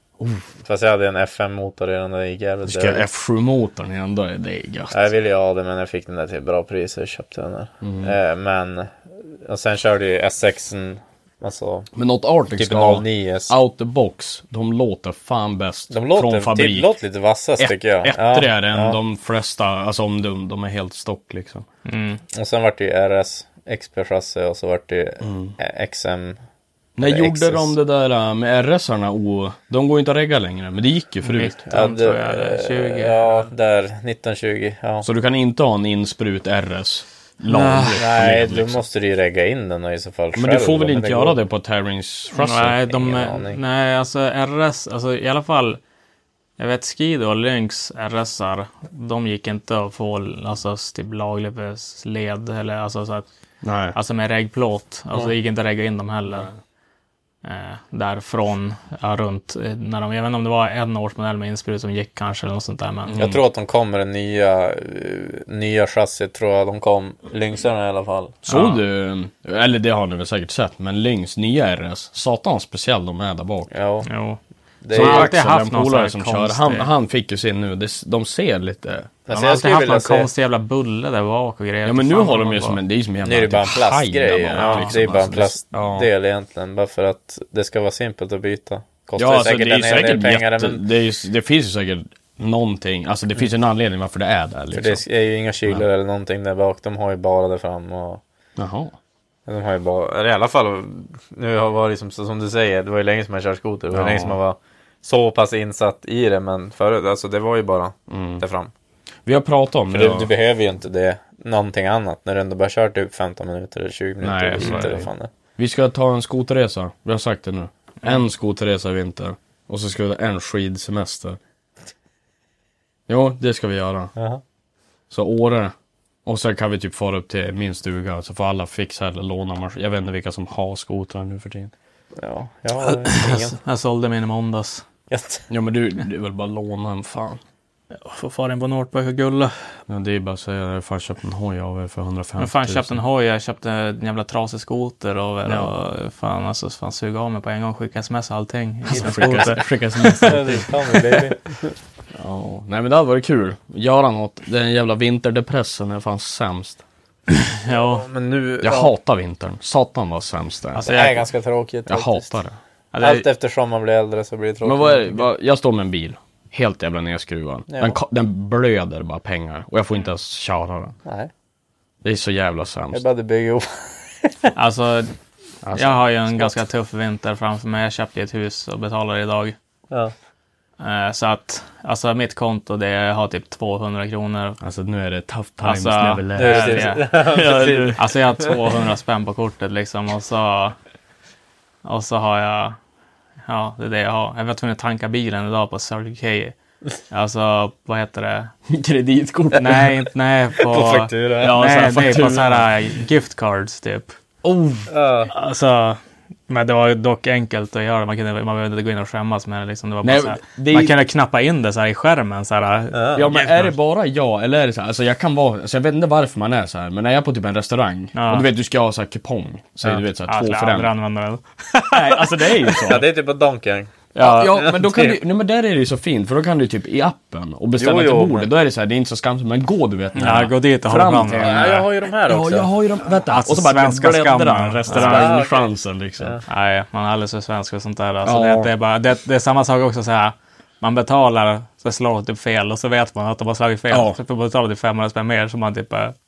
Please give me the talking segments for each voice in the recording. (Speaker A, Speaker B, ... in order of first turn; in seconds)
Speaker A: 0.2-0.5, 2.6-5.1, 7.8-8.1, 11.9-16.9, 17.6-21.6, 25.2-25.5, 27.0-31.6, 35.0-38.8, 40.3-42.9, 53.6-54.0, 63.1-63.4, 68.5-73.7, 74.9-79.1, 81.8-86.1, 89.2-95.0, 98.6-99.0, 103.9-104.4, 108.1-108.4, 109.2-110.3, 114.2-121.4, 123.1-124.1, 125.1-125.7, 126.2-131.7, 135.5-137.4, 139.9-143.0, 145.4-145.7, 148.8-150.7, 152.1-156.8, 158.6-161.1, 161.9-162.6, 164.6-170.9, 172.0-173.0, 175.6-176.5, 184.6-188.0, 198.7-200.1, 201.4-202.7, 204.4-204.9, 210.0-210.9, 213.1-220.9, 221.9-223.1, 224.1-236.4, 238.2-238.7, 243.9-244.2
Speaker B: 0.6-3.0, 4.9-11.9, 12.6-13.5, 15.9-19.0, 22.3-26.4, 27.0-27.7, 31.7-35.1, 38.0-41.4, 42.9-43.6, 63.1-68.4, 73.7-74.1, 74.8-75.3, 79.3-80.3, 83.2-90.8, 94.7-98.2, 99.5-108.7, 109.9-115.3, 124.2-124.4, 132.2-133.6, 135.1-135.4, 149.0-149.5, 150.2-151.7, 157.7-158.9, 160.8-162.3, 163.0-165.1, 167.7-168.0, 172.9-174.5, 186.4-188.1, 200.7-201.6, 204.9-205.3, 212.9-213.3, 222.8-225.2, 227.8-228.5, 231.4-232.7, 234.9-236.4
Speaker C: 21.9-22.2, 31.2-33.5, 37.5-38.0, 42.3-45.8, 46.6-53.2, 53.9-56.5, 57.4-63.2, 68.5-68.8, 74.0-74.4, 74.9-76.9, 79.3-82.8, 84.6-85.0, 114.6-114.9, 133.0-134.8, 138.0-139.7, 142.4-150.6, 157.6-158.1, 160.7-161.2, 162.9-163.3, 174.5-175.1, 175.7-179.6, 180.8-184.6, 185.6-187.0, 187.9-190.8, 191.8-192.8, 193.4-196.5, 197.1-198.5, 199.5-204.2, 205.3-213.7, 218.1-218.5, 219.8-222.9, 230.2-231.7, 233.3-235.3, 236.5-246.1